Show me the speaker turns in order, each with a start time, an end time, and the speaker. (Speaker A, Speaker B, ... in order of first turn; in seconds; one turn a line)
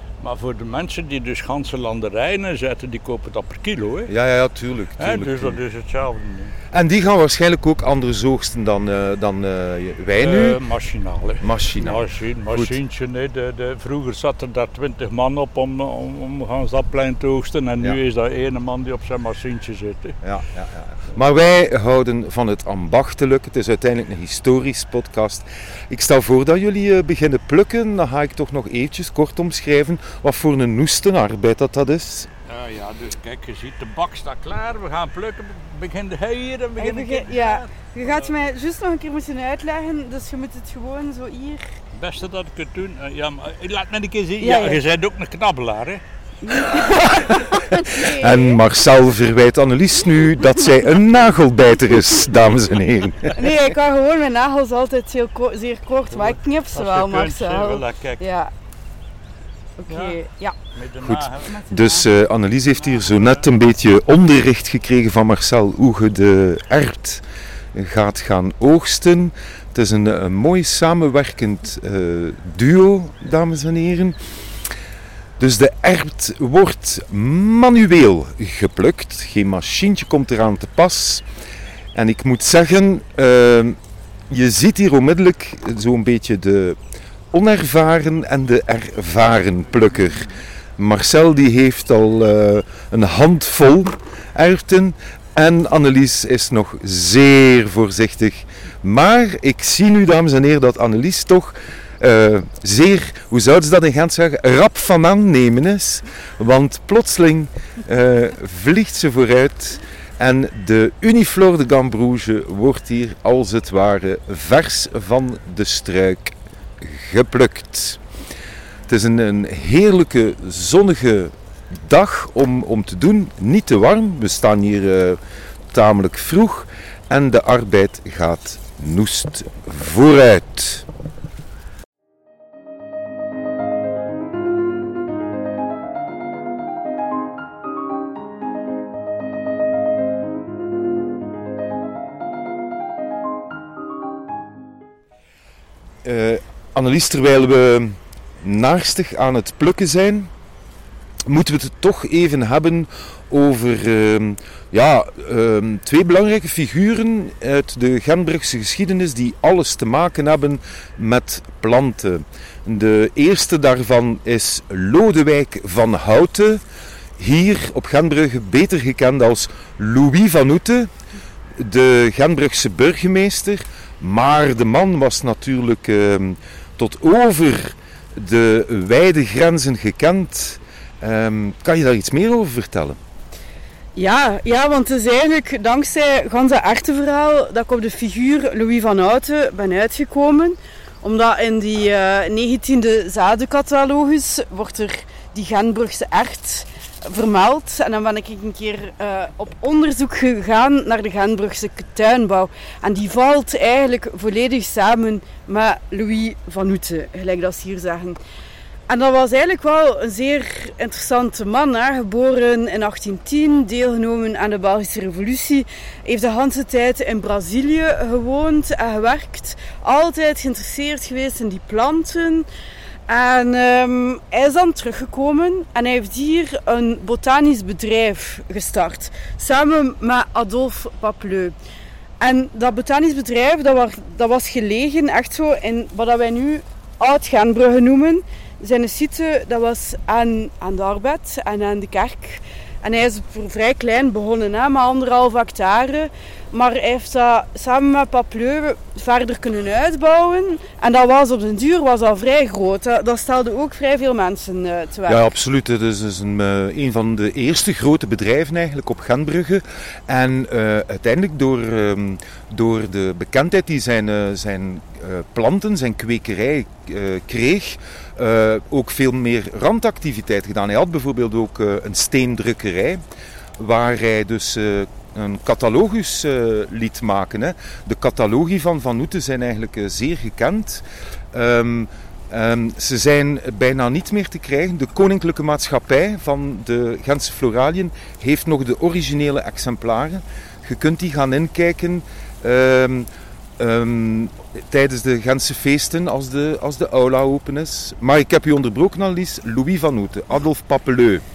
Speaker A: 0.2-4.1
Speaker B: 4.1-5.6
Speaker A: 5.0-6.5
Speaker B: 6.7-10.6
Speaker A: 10.2-20.1
Speaker B: 11.4-12.8
Speaker B: 20.2-32.3
Speaker A: 32.5-38.4
Speaker C: 36.8-41.7
Speaker A: 41.9-46.0
Speaker C: 44.4-44.8
Speaker C: 46.4-48.6
Speaker B: 47.1-53.4
Speaker C: 53.4-58.5
Speaker A: 56.1-58.2
Speaker C: 59.8-60.6
Speaker A: 59.9-60.2
Speaker A: 60.7-61.6
Speaker B: 61.0-74.2
Speaker C: 61.4-62.1
Speaker A: 62.7-63.4
Speaker B: 75.4-81.2
Speaker B: 81.9-83.8
Speaker B: 84.3-86.8
Speaker B: 87.3-118.0
Speaker B: 118.9-125.2
Speaker B: 125.7-130.8
Speaker B: 146.0-150.3
Speaker B: 151.2-166.6
Speaker B: 167.2-170.9
Speaker B: 171.6-183.0
Speaker C: 183.9-208.2
Speaker C: 208.9-222.4
Speaker C: 223.1-231.5
Speaker C: 232.2-255.2
Speaker B: 255.1-273.0
Speaker B: 273.6-301.2